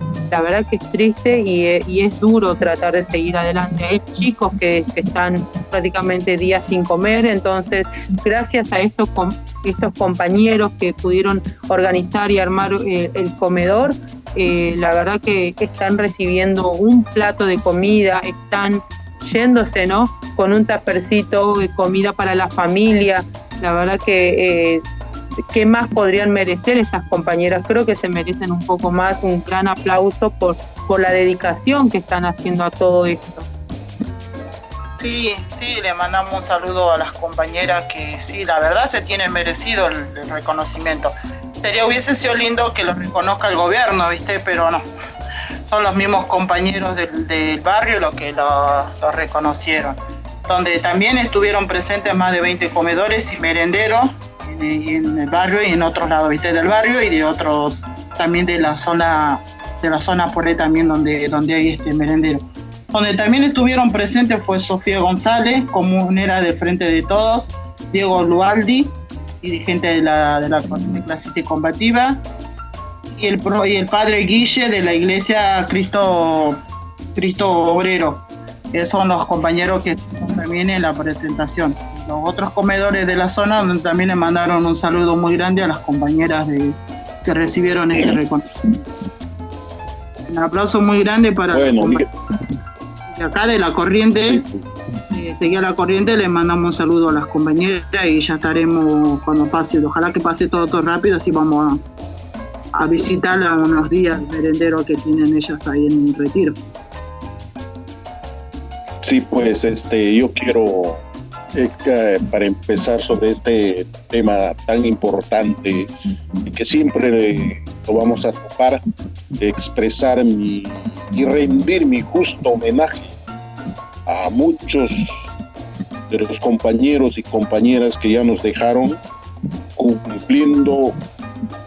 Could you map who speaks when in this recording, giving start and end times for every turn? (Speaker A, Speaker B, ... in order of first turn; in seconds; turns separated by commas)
Speaker A: 0.3-24.8, Speaker A: 25.5-33.5, Speaker B: 35.0-44.8, Speaker B: 45.7-72.2, Speaker B: 73.2-76.6, Speaker B: 77.2-88.5, Speaker B: 90.3-92.1, Speaker C: 91.5-92.1, Speaker B: 93.1-94.5, Speaker C: 94.2-94.6, Speaker B: 95.1-101.8, Speaker B: 102.8-106.6, Speaker C: 109.0-115.9, Speaker C: 116.5-118.8, Speaker C: 119.4-123.1, Speaker C: 124.1-125.3, Speaker C: 126.1-129.0, Speaker C: 129.8-131.0